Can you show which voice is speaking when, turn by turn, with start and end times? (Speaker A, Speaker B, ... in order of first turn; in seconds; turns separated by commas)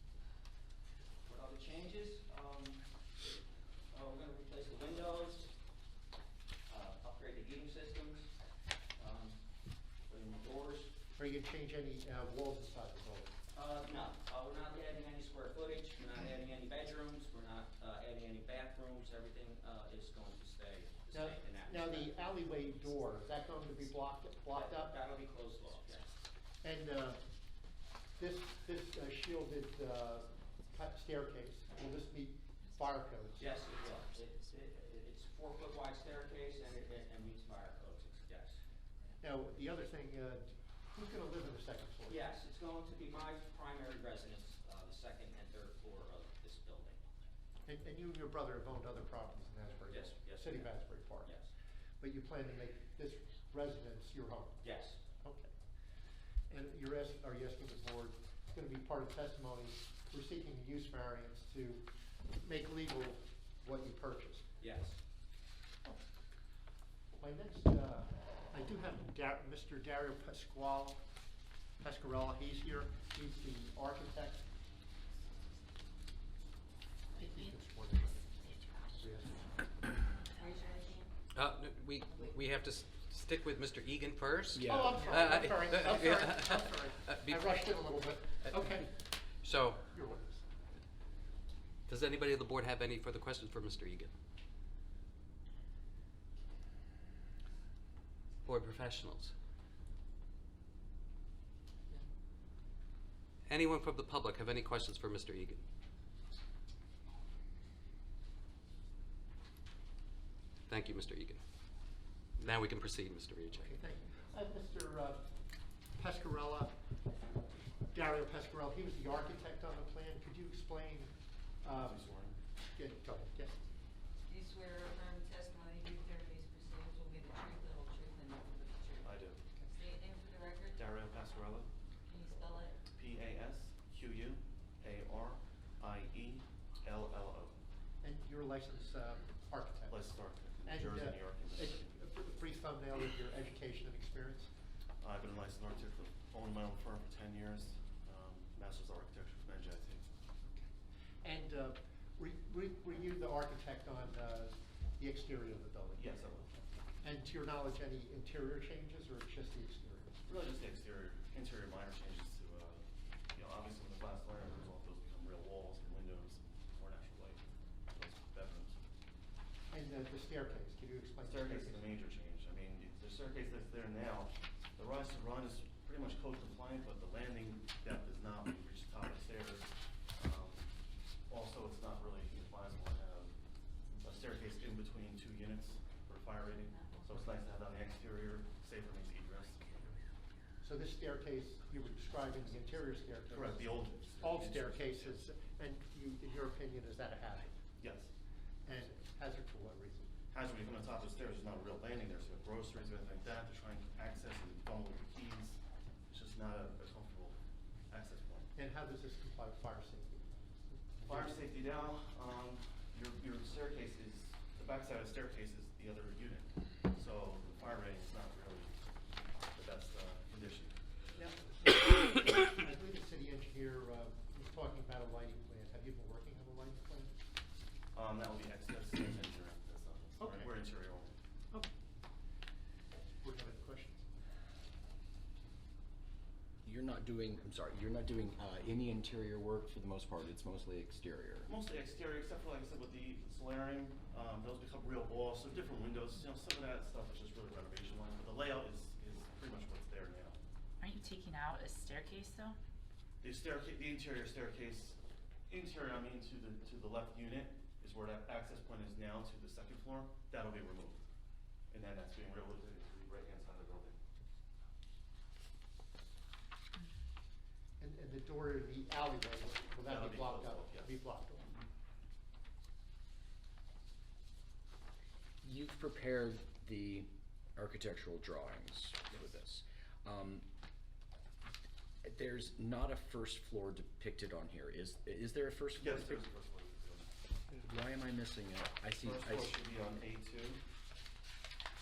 Speaker A: 1.3-5.5, Speaker A: 6.7-8.3, Speaker A: 9.0-9.4, Speaker A: 10.1-11.0, Speaker B: 11.1-13.3, Speaker A: 13.5-22.3, Speaker B: 21.1-24.9, Speaker A: 24.5-26.1, Speaker B: 26.6-27.2, Speaker B: 28.2-33.5, Speaker A: 33.4-38.6, Speaker B: 39.2-42.3, Speaker A: 42.1-47.0, Speaker B: 47.6-51.3, Speaker A: 49.9-51.5, Speaker B: 52.0-54.6, Speaker A: 54.6-55.0, Speaker B: 55.2-55.5, Speaker B: 56.5-61.9, Speaker B: 62.4-64.5, Speaker A: 64.6-65.0, Speaker B: 67.2-71.0, Speaker B: 71.8-74.5, Speaker C: 77.2-77.6, Speaker B: 77.2-79.5, Speaker C: 78.4-79.2, Speaker D: 80.3-81.1, Speaker E: 81.3-88.8, Speaker F: 84.5-85.1, Speaker B: 84.6-88.9, Speaker E: 89.4-89.8, Speaker B: 89.9-90.5, Speaker E: 91.9-94.1, Speaker E: 98.5-99.3, Speaker E: 103.5-105.6, Speaker E: 110.7-111.4, Speaker E: 112.4-113.8, Speaker B: 113.6-115.3, Speaker B: 116.0-116.8, Speaker B: 117.9-122.0, Speaker G: 121.7-122.4, Speaker B: 122.8-123.6, Speaker D: 124.2-130.8, Speaker G: 129.0-129.4, Speaker G: 130.7-131.7, Speaker D: 132.1-132.8, Speaker G: 132.9-137.6, Speaker B: 138.0-140.0, Speaker G: 139.9-141.9, Speaker B: 140.7-144.5, Speaker G: 145.0-150.1, Speaker B: 150.4-150.7, Speaker B: 151.2-156.1, Speaker G: 156.0-156.5, Speaker B: 157.0-160.2, Speaker G: 160.3-168.8, Speaker B: 169.7-171.9, Speaker G: 171.2-180.7, Speaker G: 181.3-183.3, Speaker G: 184.0-189.9, Speaker D: 186.6-187.1, Speaker B: 190.6-197.5, Speaker G: 193.3-195.2, Speaker G: 197.8-198.1, Speaker B: 198.7-200.1, Speaker G: 200.3-208.5, Speaker B: 208.6-211.4, Speaker G: 211.1-218.8, Speaker G: 219.5-220.7, Speaker B: 221.2-227.2, Speaker G: 227.9-231.2, Speaker B: 230.2-230.5, Speaker B: 233.2-234.1, Speaker F: 236.6-241.5, Speaker G: 241.5-250.4, Speaker C: 250.8-252.6, Speaker G: 253.2-255.0, Speaker G: 255.5-261.0, Speaker G: 261.7-264.0, Speaker B: 267.8-271.6, Speaker G: 269.8-271.0, Speaker F: 275.4-280.5, Speaker F: 282.0-286.2, Speaker G: 285.8-287.1, Speaker F: 287.5-289.6, Speaker G: 289.0-290.6